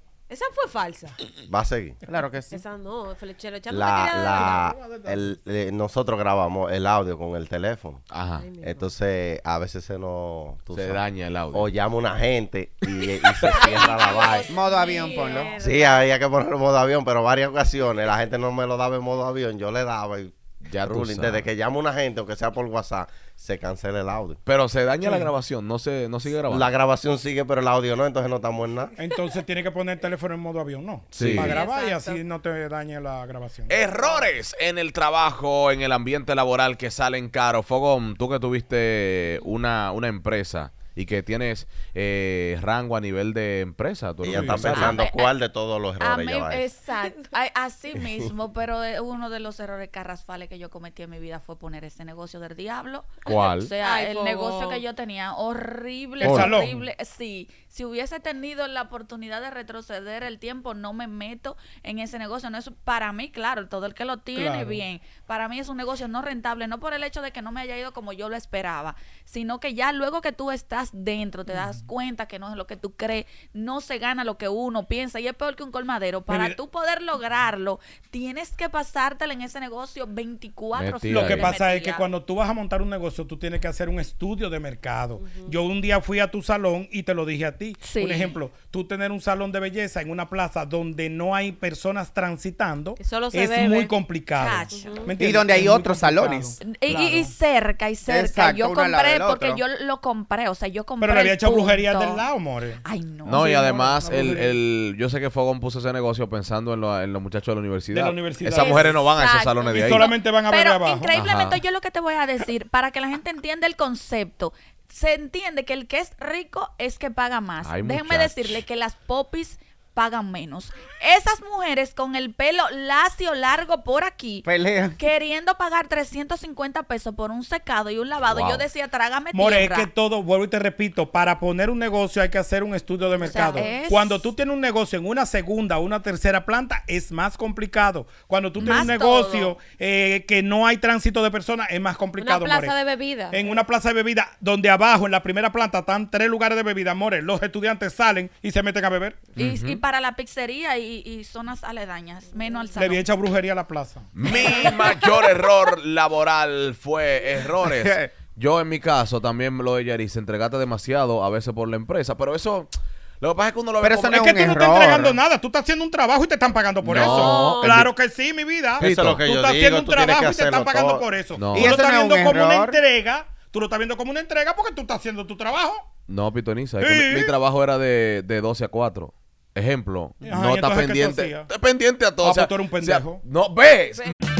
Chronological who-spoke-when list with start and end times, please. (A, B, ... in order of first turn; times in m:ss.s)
0:00.3-0:01.2 A
0:01.5-0:02.0 B
0:02.0-0:02.6 C
0:02.5-0:04.7 A
0:03.7-0:08.0 B
0:04.4-0:05.2 D
0:08.1-0:08.5 E
0:08.4-0:08.9 A
0:08.6-0:14.5 B
0:10.7-0:11.8 E
0:13.7-0:16.1 A
0:14.5-0:15.5 C
0:14.8-0:15.5 F
0:15.6-0:24.4 B
0:20.6-0:21.5 E
0:24.4-0:26.7 E
0:25.0-0:25.3 D
0:26.5-0:28.9 B
0:29.0-0:33.8 D
0:31.1-0:31.6 E
0:31.2-0:31.5 B
0:31.4-0:32.2 A
0:33.7-0:45.0 E
0:33.8-0:34.3 A
0:44.2-0:46.7 B
0:44.6-0:45.3 F
0:46.0-1:22.0 F
0:53.2-0:53.7 E
0:53.8-0:54.8 A
0:56.2-0:56.8 D
0:56.2-0:56.6 E
1:04.3-1:04.8 D
1:16.3-1:16.6 D
1:20.8-1:21.5 E
1:21.1-1:37.3 D
1:25.2-1:25.6 A
1:27.8-1:28.4 F
1:33.0-1:34.0 A
1:34.3-1:35.1 F
1:34.7-1:35.1 A
1:35.2-1:36.6 C
1:36.6-1:42.2 F
1:38.0-1:39.6 C
1:41.0-1:42.8 D
1:42.8-1:44.1 F
1:43.2-1:50.1 E
1:43.7-1:44.6 D
1:47.9-1:49.0 D
1:48.4-2:09.9 F
1:49.8-1:51.1 D
1:51.1-1:51.6 E
1:57.6-1:58.6 E
2:04.4-2:05.0 C
2:08.3-2:08.6 E
2:09.3-2:22.8 D
2:13.2-2:14.3 F
2:13.4-2:13.7 A
2:18.6-2:18.9 E
2:18.6-2:19.5 F
2:22.2-2:23.5 A
2:23.3-2:29.2 D
2:29.4-2:29.8 E
2:29.4-2:33.1 F
2:32.4-2:32.8 A
2:32.8-2:34.1 D
2:34.1-2:44.3 E
2:34.3-2:34.7 F
2:37.6-2:38.1 C
2:43.8-2:45.2 C
2:44.1-2:55.8 D
2:46.8-2:47.8 A
2:47.0-2:47.9 E
2:48.8-2:51.1 B
2:48.8-2:49.2 E
2:51.3-2:51.8 E
2:51.5-2:52.8 C
2:56.1-3:04.1 E
2:56.8-2:57.3 D
3:00.2-3:01.5 D
3:02.2-3:03.2 D